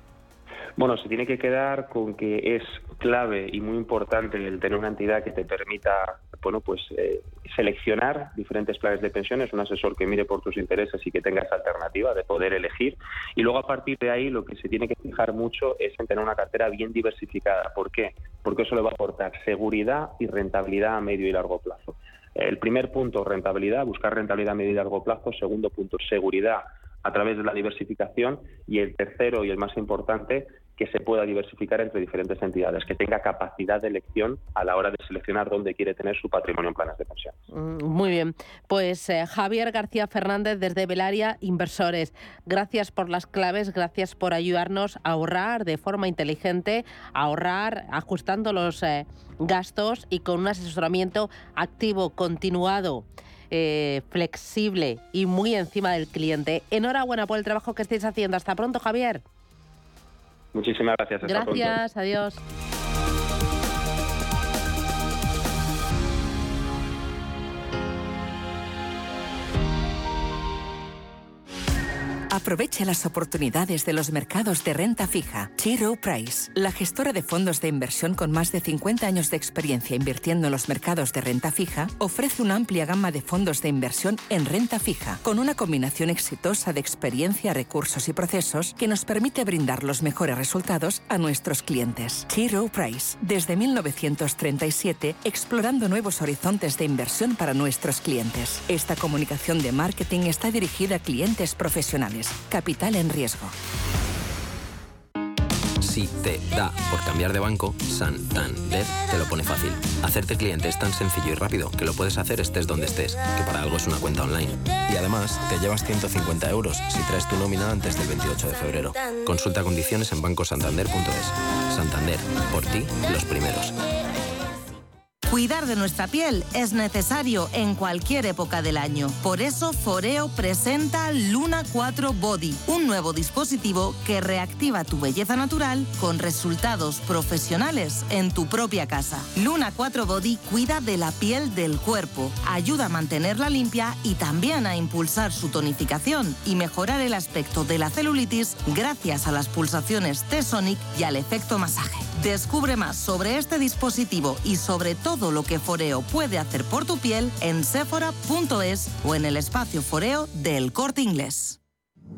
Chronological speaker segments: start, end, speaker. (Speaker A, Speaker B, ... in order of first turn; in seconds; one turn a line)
Speaker A: 0.8-37.3
Speaker B: 37.5-59.2
Speaker A: 60.5-61.8
Speaker B: 61.2-62.4
Speaker C: 72.3-103.5
Speaker D: 105.8-123.8
Speaker E: 125.3-161.6